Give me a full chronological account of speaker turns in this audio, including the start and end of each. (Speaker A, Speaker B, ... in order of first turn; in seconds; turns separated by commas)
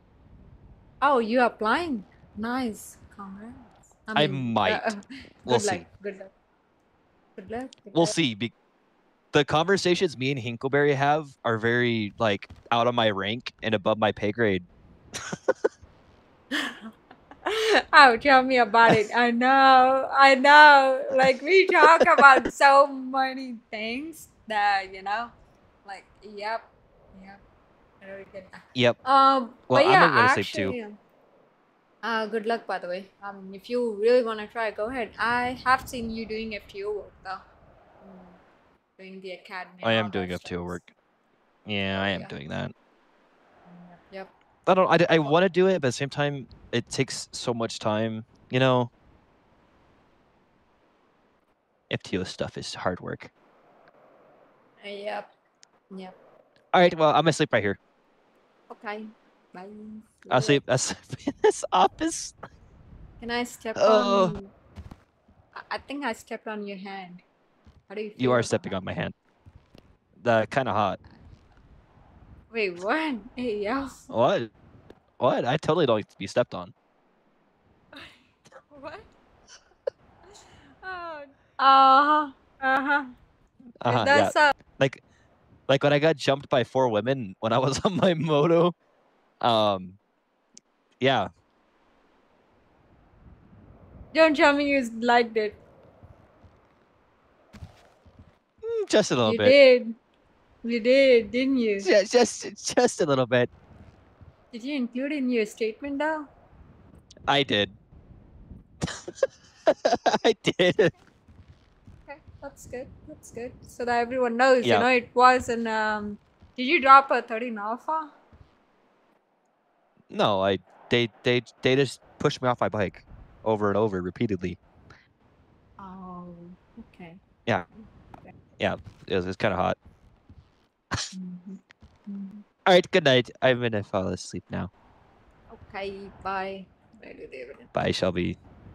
Speaker A: 1.0-6.3, Speaker B: 4.2-4.9, Speaker B: 5.5-5.9, Speaker A: 7.4-8.1, Speaker B: 7.9-8.5, Speaker B: 9.3-14.7, Speaker A: 16.5-16.9, Speaker A: 17.4-25.3, Speaker B: 21.7-22.3, Speaker A: 25.9-27.4, Speaker A: 28.0-31.0, Speaker B: 29.7-30.8, Speaker A: 32.0-37.4, Speaker A: 38.0-38.4, Speaker A: 39.0-40.8, Speaker B: 39.8-40.9, Speaker B: 41.7-42.7, Speaker A: 41.8-42.3, Speaker A: 43.6-44.3, Speaker B: 44.7-48.9, Speaker B: 51.9-53.3, Speaker A: 54.8-55.3, Speaker B: 56.7-57.8, Speaker A: 58.7-60.6, Speaker B: 60.3-62.4, Speaker A: 63.2-64.5, Speaker B: 63.8-64.4, Speaker A: 65.5-67.2, Speaker A: 67.9-68.8, Speaker B: 68.2-69.1, Speaker B: 70.2-71.0, Speaker A: 72.5-74.0, Speaker B: 74.1-74.5, Speaker B: 75.2-76.7, Speaker A: 77.9-79.1, Speaker A: 80.3-83.1, Speaker B: 83.8-85.0, Speaker A: 83.9-84.5, Speaker B: 85.7-88.7, Speaker B: 89.4-90.0, Speaker B: 91.0-91.3, Speaker A: 94.1-95.6, Speaker B: 98.6-99.6, Speaker A: 99.2-100.0, Speaker A: 100.6-101.9, Speaker B: 101.8-103.5, Speaker A: 104.5-106.3, Speaker B: 107.3-107.8, Speaker B: 109.7-110.9, Speaker A: 112.1-118.1, Speaker B: 120.1-124.6, Speaker A: 125.8-127.2, Speaker A: 127.7-128.3, Speaker B: 128.6-129.8, Speaker A: 131.1-132.4, Speaker B: 132.7-134.7, Speaker A: 135.5-137.7, Speaker B: 137.7-138.4